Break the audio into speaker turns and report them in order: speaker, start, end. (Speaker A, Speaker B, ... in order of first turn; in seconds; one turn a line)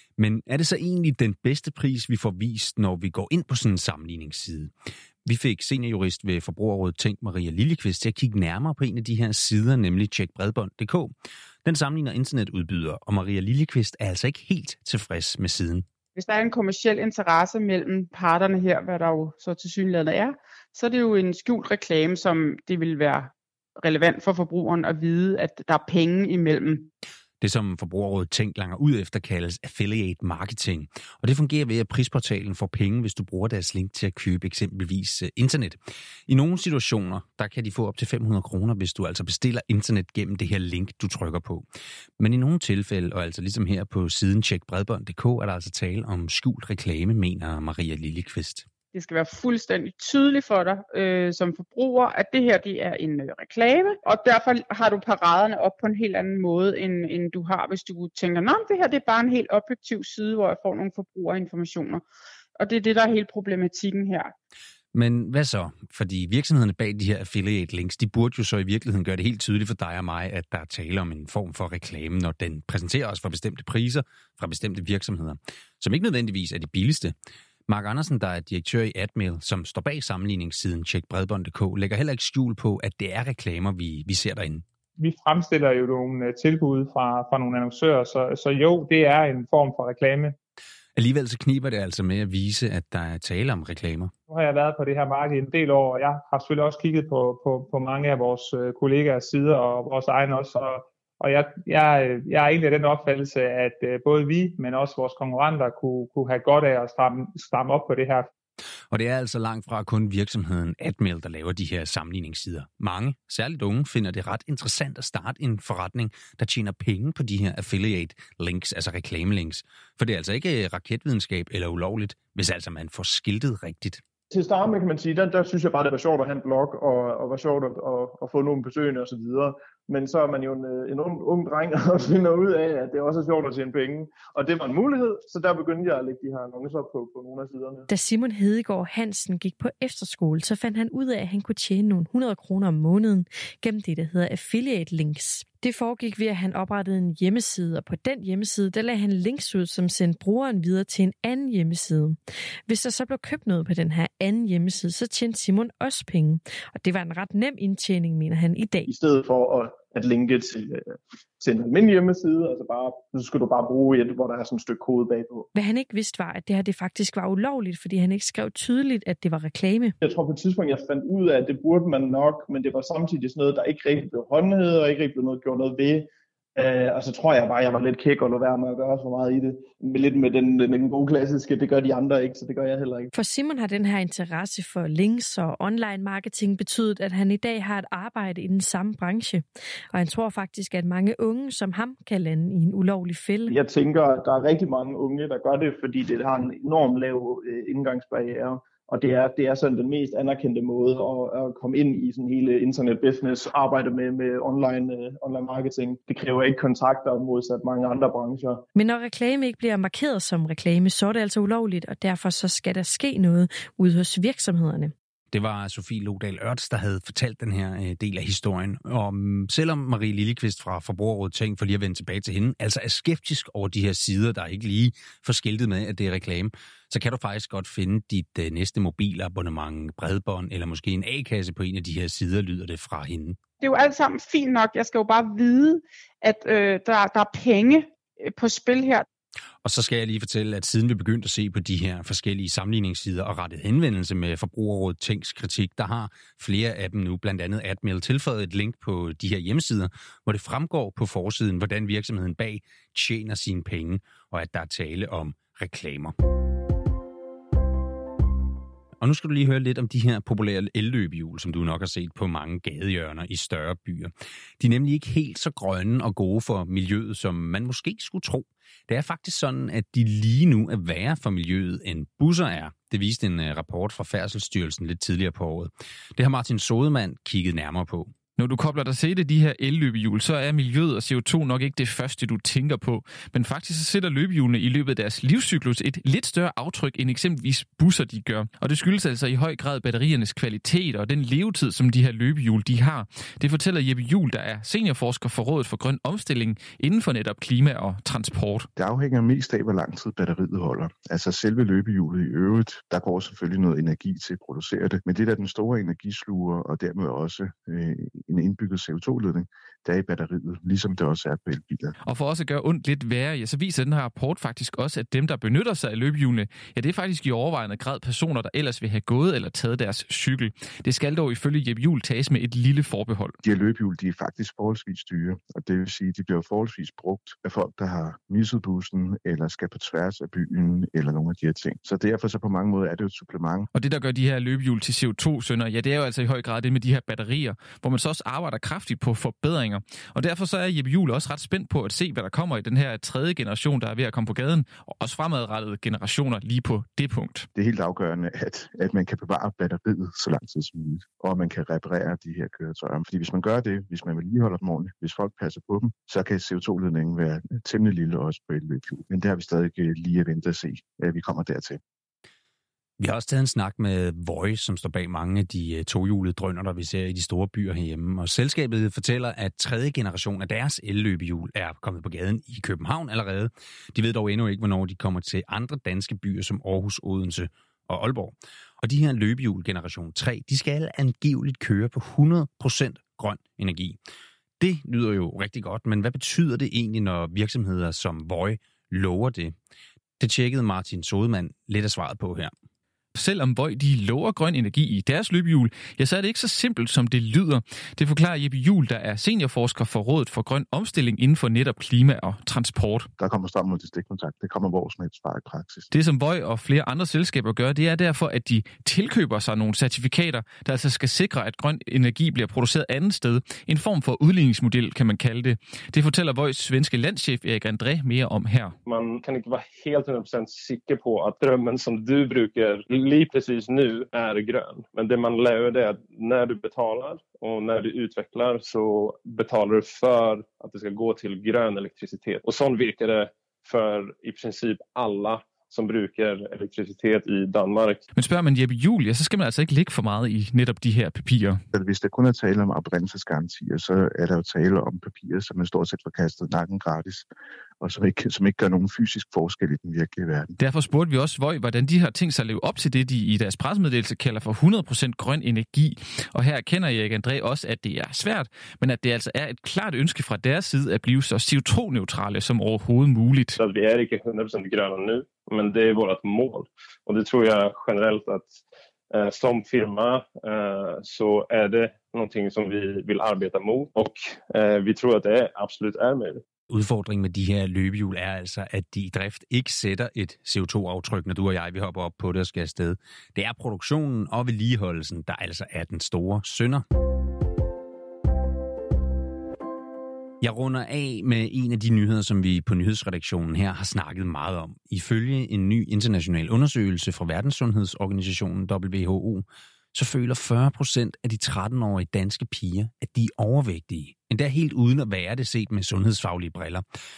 Speaker A: 0.2-4.7
Speaker A: 5.2-11.1
Speaker A: 11.6-15.8
Speaker B: 16.1-26.9
Speaker A: 27.4-41.6
Speaker A: 42.2-48.6
Speaker B: 48.9-62.0
Speaker B: 62.5-64.3
Speaker A: 64.9-77.1
Speaker A: 77.7-84.6
Speaker C: 85.0-90.3
Speaker A: 91.0-94.1
Speaker C: 94.3-108.3
Speaker A: 108.9-124.0
Speaker D: 124.3-137.8
Speaker E: 137.9-158.9
Speaker D: 158.9-165.5
Speaker E: 165.5-169.9
Speaker D: 170.0-183.1
Speaker E: 183.1-193.5
Speaker D: 193.5-208.6
Speaker E: 208.7-214.9
Speaker A: 215.3-233.4
Speaker B: 233.6-239.1
Speaker A: 239.6-256.1
Speaker A: 259.0-278.1
Speaker F: 278.4-298.7
Speaker G: 298.8-311.9
Speaker F: 312.1-323.4
Speaker G: 323.4-333.7
Speaker F: 333.7-347.5
Speaker G: 347.5-361.8
Speaker A: 363.0-384.0
Speaker A: 384.6-389.5
Speaker A: 390.2-392.5
Speaker F: 393.1-403.1
Speaker G: 403.2-405.9
Speaker F: 405.9-418.7
Speaker H: 418.9-438.0
Speaker F: 438.1-441.6
Speaker G: 441.7-447.3
Speaker G: 447.8-450.6
Speaker F: 450.6-463.6
Speaker H: 463.6-476.4
Speaker A: 476.7-486.8
Speaker A: 490.4-506.8